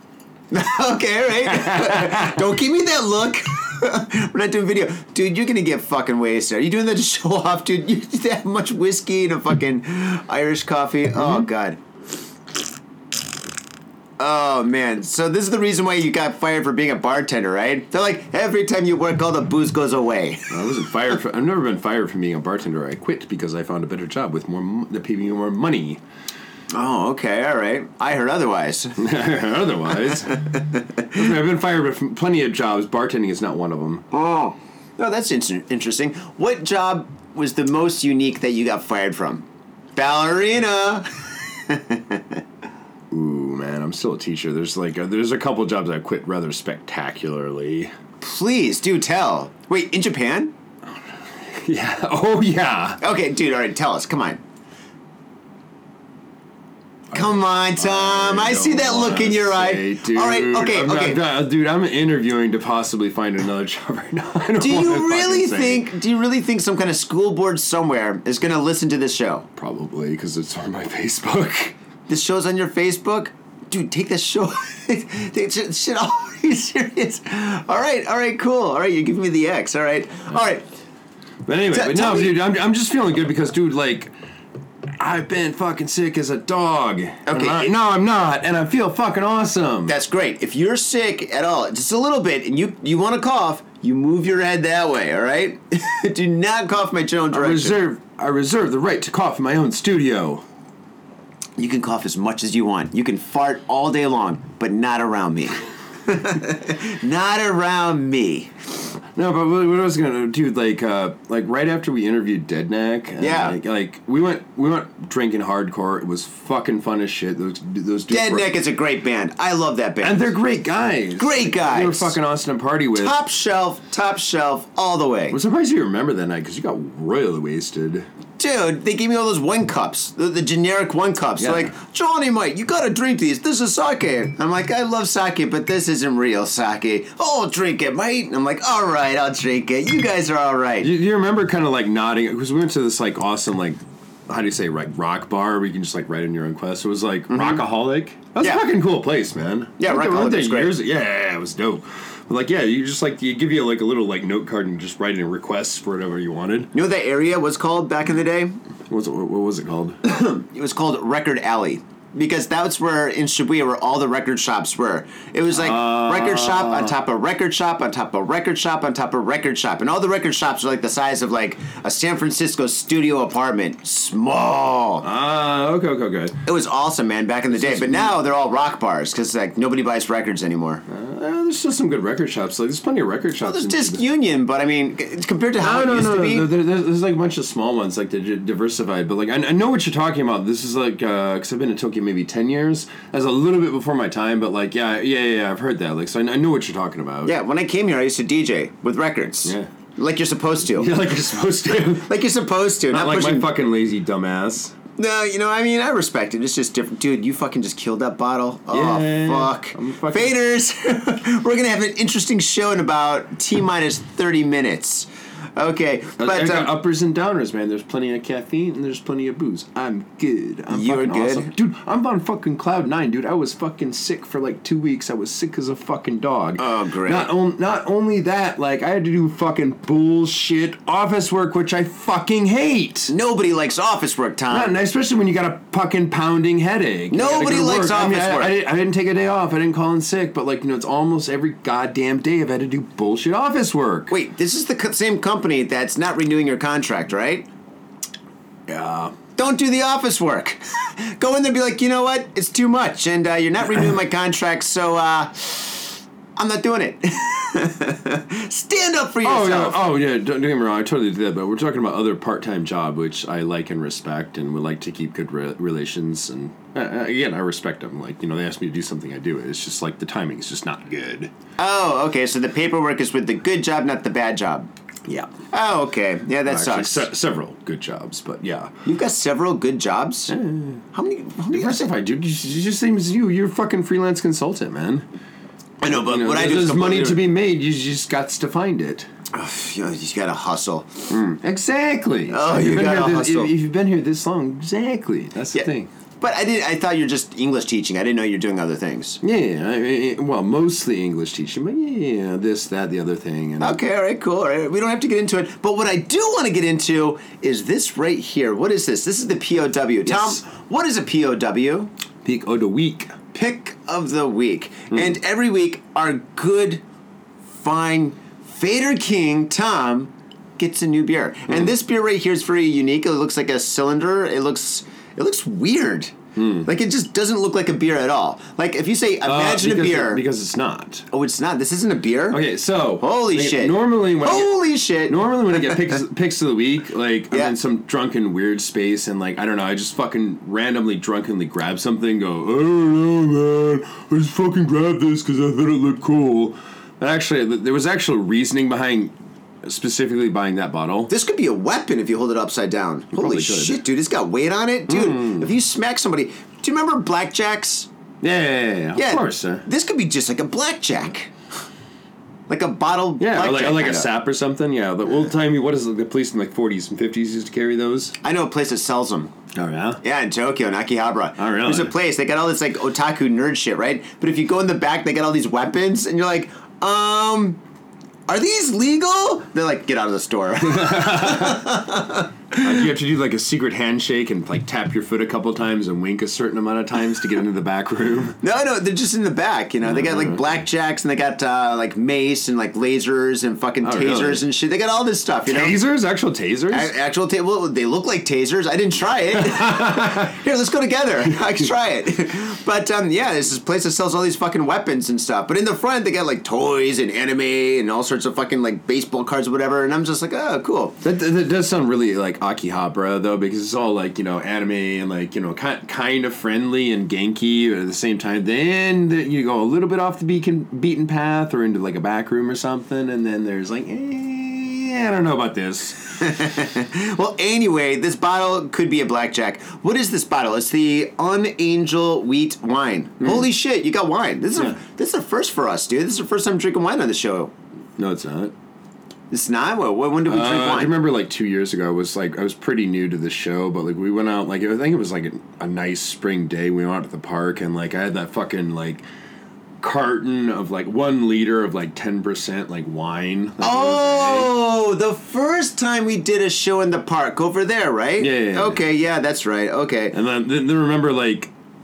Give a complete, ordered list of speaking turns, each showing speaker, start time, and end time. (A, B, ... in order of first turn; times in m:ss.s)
0:00.5-0:11.8 A
0:01.4-0:02.4 B
0:11.1-0:11.5 B
0:14.2-0:20.8 A
0:20.5-0:26.0 B
0:26.7-0:29.0 A
0:29.0-0:30.4 B
0:30.5-0:30.8 A
0:31.1-0:34.0 B
0:34.1-0:39.4 A
0:40.0-0:42.2 A
0:43.1-0:47.9 B
0:48.2-0:50.5 A
0:51.4-0:53.0 B
0:53.0-0:54.4 A
0:57.1-1:05.9 B
0:57.1-1:01.2 A
1:04.6-1:09.5 A
1:09.6-1:11.7 B
1:12.1-1:20.7 A
1:21.4-1:24.1 B
1:21.7-1:22.4 A
1:25.0-1:30.0 B
1:27.2-1:27.7 A
1:29.9-1:37.8 A
1:37.3-1:40.4 B
1:41.6-1:48.5 A
1:49.1-1:58.6 B
1:53.2-1:53.6 A
1:58.1-2:00.3 A
2:00.0-2:03.2 B
2:01.2-2:02.1 A
2:02.9-2:05.4 A
2:05.3-2:08.0 B
2:08.4-2:20.9 A
2:11.4-2:11.7 B
2:20.8-2:36.7 B
2:27.3-2:27.6 A
2:28.4-2:28.6 A
2:29.8-2:30.8 A
2:36.7-2:38.6 A
2:38.9-2:40.0 B
2:40.0-2:55.0 A
2:45.5-2:46.9 B
2:55.0-2:56.4 B
2:56.4-3:00.8 A
2:57.5-2:58.2 B
3:00.9-3:04.0 B
3:03.4-3:06.5 A
3:05.6-3:17.4 B
3:17.2-3:20.9 A
3:19.4-3:19.7 B
3:20.7-3:22.2 B
3:21.8-3:23.5 A
3:22.9-3:24.8 B
3:25.0-3:36.8 A
3:28.7-3:30.4 B
3:36.2-3:53.1 B
3:40.7-3:41.5 A
3:46.6-3:47.3 A
3:53.1-3:54.7 A
3:54.5-4:04.1 B
3:57.1-3:58.6 A
4:04.1-4:07.5 A
4:08.7-4:09.2 B
4:09.4-4:19.9 A
4:19.2-4:31.3 B
4:31.6-4:34.7 A
4:35.0-4:35.3 B
4:35.5-4:37.1 A
4:36.4-4:38.7 B
4:38.8-4:40.3 A
4:40.3-4:40.8 B
4:40.9-4:41.9 A
4:41.5-4:45.1 B
4:45.8-4:47.2 A
4:45.8-4:49.1 B
4:49.3-4:51.1 A
4:51.1-4:55.9 B
4:52.3-4:53.5 A
4:56.2-4:59.2 A
4:59.2-5:03.8 B
5:03.6-5:11.9 A
5:10.0-5:10.4 B
5:12.2-5:13.1 B
5:13.3-5:16.8 A
5:17.5-5:30.2 A
5:26.4-5:26.7 B
5:29.2-5:31.0 B
5:31.1-5:32.4 A
5:32.3-5:51.1 B
5:33.0-5:35.7 A
5:37.3-5:37.5 A
5:51.1-5:57.9 A
5:53.1-5:53.8 B
5:54.9-5:55.5 B
5:58.2-5:59.6 B
5:58.9-6:01.3 A
6:02.5-6:04.1 A
6:03.2-6:08.1 B
6:08.2-6:09.3 A
6:09.5-6:10.0 B
6:10.0-6:17.6 A
6:11.4-6:11.9 B
6:18.3-6:22.8 A
6:20.6-6:21.6 B
6:22.6-6:28.4 B
6:28.4-6:35.8 A
6:29.8-6:30.5 B
6:33.8-6:34.4 B
6:35.4-6:36.9 B
6:36.7-6:51.0 A
6:39.4-6:40.3 B
6:51.0-7:06.2 B
7:06.2-7:17.5 A
7:13.2-7:13.4 B
7:18.0-7:18.5 B
7:19.3-7:21.0 A
7:20.2-7:29.0 B
7:29.8-7:34.5 B
7:33.6-7:40.2 A
7:38.2-7:38.8 B
7:40.1-7:41.5 B